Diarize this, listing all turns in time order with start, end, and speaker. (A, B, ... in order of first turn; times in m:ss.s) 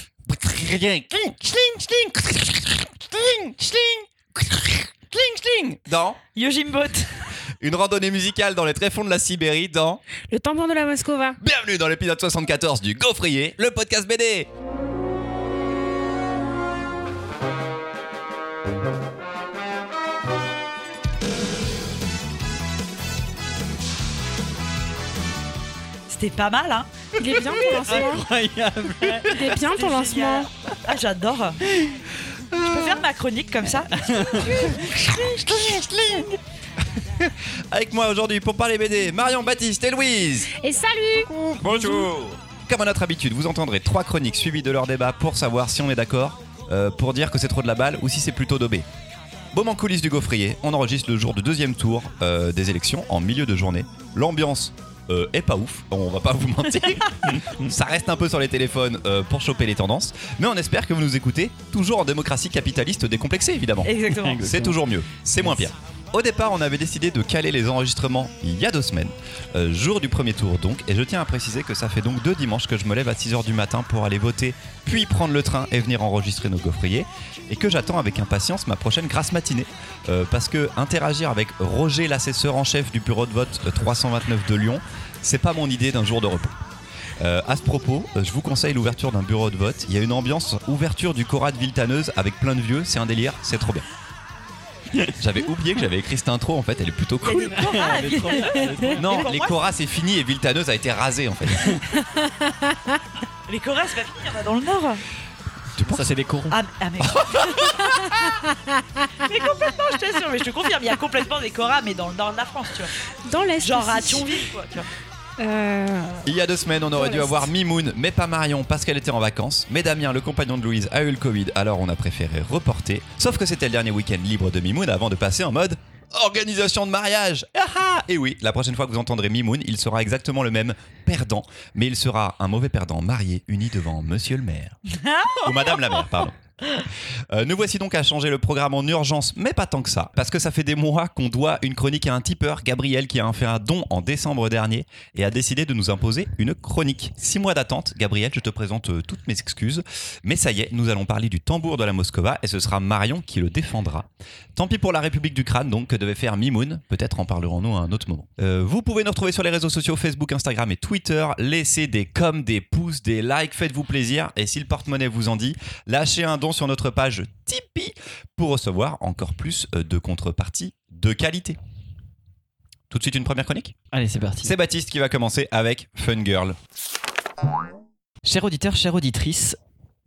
0:00.2-0:06.2 A
0:06.3-0:07.1 B
0:07.6-0:10.0 A
0:10.3-0:11.4 C
0:11.4-0:14.5 A
0:26.1-0:26.9 B
0:27.2-0:28.3 C
0:27.7-0:29.4 D
0:29.2-0:30.5 C
0:29.4-0:31.6 B
0:31.7-0:32.0 D
0:32.5-0:33.0 A
0:32.5-0:34.7 B
0:33.9-0:34.8 D
0:34.4-0:36.3 A
0:37.1-0:40.5 A
0:40.6-0:41.3 C
0:41.1-0:48.9 A
0:49.5-1:26.6 A
0:57.2-0:57.7 D
1:03.8-1:04.4 B
1:04.1-1:04.8 D
1:05.4-1:05.7 D
1:27.2-1:33.8 A
1:35.2-1:37.8 A
1:37.2-1:39.6 B
1:37.5-1:39.3 D
1:39.0-1:41.8 A
1:43.5-1:45.0 B
1:45.8-1:46.1 A
1:45.8-1:46.6 D
1:46.5-1:48.2 B
1:47.0-1:48.3 A
1:48.5-1:49.3 C
1:49.2-1:52.9 B
1:53.2-1:54.4 C
1:53.6-1:54.9 B
1:55.4-1:56.3 C
1:56.2-2:14.8 A
1:56.9-1:57.5 C
2:14.9-2:15.8 B
2:15.3-2:16.4 A
2:17.3-2:51.6 A
2:52.9-2:53.7 A
2:53.9-2:54.5 D
2:54.4-2:56.6 A
2:58.2-2:59.6 D